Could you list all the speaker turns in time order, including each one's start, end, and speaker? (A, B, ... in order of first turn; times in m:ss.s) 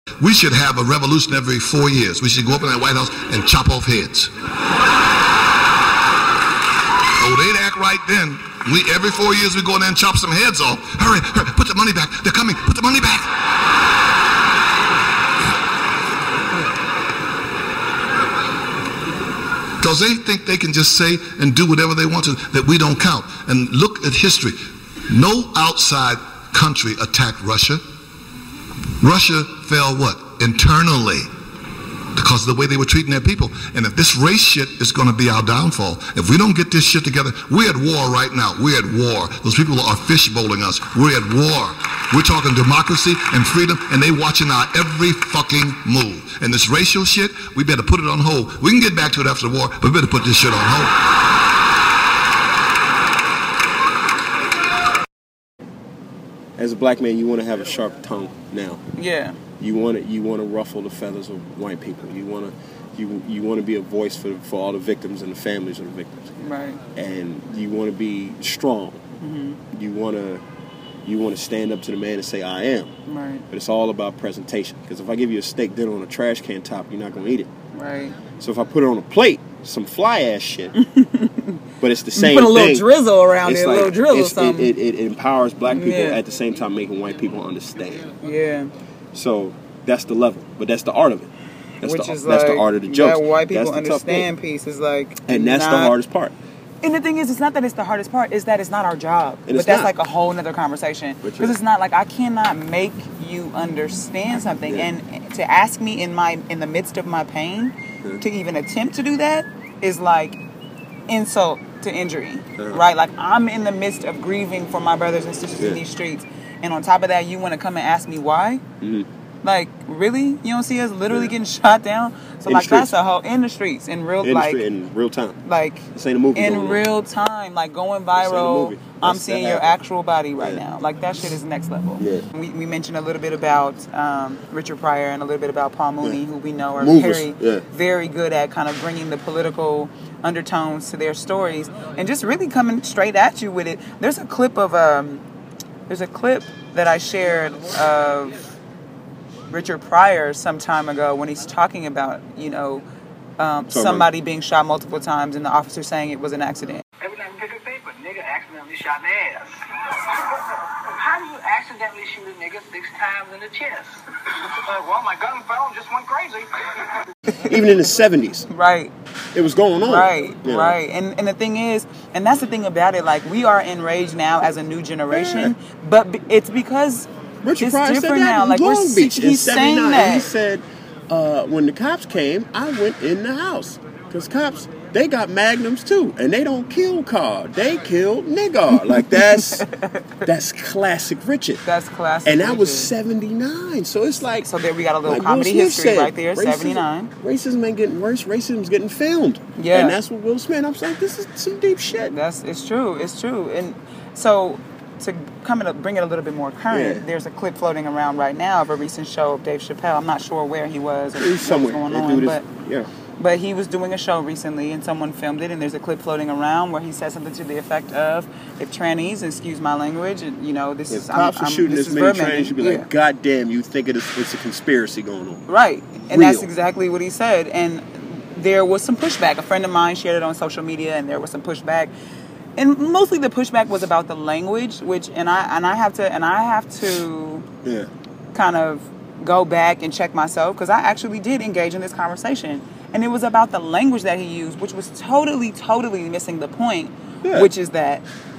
0:00.2-0:04.3 A
0:07.2-0:13.4 A
0:19.8-0:24.6 A
0:25.1-0:27.8 A
0:29.0-0:31.3 A
0:32.1-0:51.0 A
0:56.6-0:58.8 B
0:59.0-0:59.4 C
0:59.6-1:06.3 B
1:06.4-1:06.8 C
1:06.9-1:09.0 B
1:09.2-1:09.6 C
1:09.7-1:10.4 B
1:11.0-1:12.9 B
1:13.1-1:13.4 C
1:13.5-1:17.5 B
1:17.7-1:18.2 C
1:18.4-1:20.7 B
1:20.8-1:21.6 C
1:21.8-1:22.9 B
1:22.1-1:24.7 C
1:23.4-1:28.2 B
1:25.7-1:26.2 C
1:28.2-1:28.7 C
1:29.1-1:34.3 B
1:31.8-1:35.9 C
1:35.3-1:36.3 B
1:36.8-1:50.4 C
1:39.5-1:39.9 B
1:41.2-1:41.5 B
1:51.1-1:58.6 C
1:58.8-1:59.1 B
1:59.4-2:04.6 C
2:02.4-2:02.9 B
2:04.2-2:05.4 B
2:05.4-2:25.2 C
2:05.9-2:06.8 B
2:08.1-2:09.8 B
2:12.0-2:12.2 B
2:16.8-2:17.6 B
2:25.9-2:28.4 C
2:29.5-2:32.8 C
2:33.4-2:36.8 C
2:33.7-2:34.1 B
2:37.0-2:47.0 D
2:47.4-2:48.5 B
2:48.5-2:48.9 C
2:49.3-2:50.8 B
2:49.8-3:00.3 C
2:55.1-2:55.5 B
2:57.4-3:09.6 B
3:09.0-3:10.2 C
3:10.2-3:11.6 B
3:11.6-3:12.9 C
3:12.2-3:14.5 B
3:14.4-3:17.1 C
3:15.0-3:22.1 B
3:19.6-3:20.0 C
3:22.0-3:32.4 C
3:26.7-3:27.0 B
3:31.1-3:32.9 B
3:33.2-3:42.9 C
3:40.9-3:45.4 B
3:45.5-3:51.9 C
3:46.0-3:46.5 B
3:52.6-3:57.4 C
3:57.6-3:57.9 B
3:58.3-4:08.0 C
4:07.2-4:07.5 B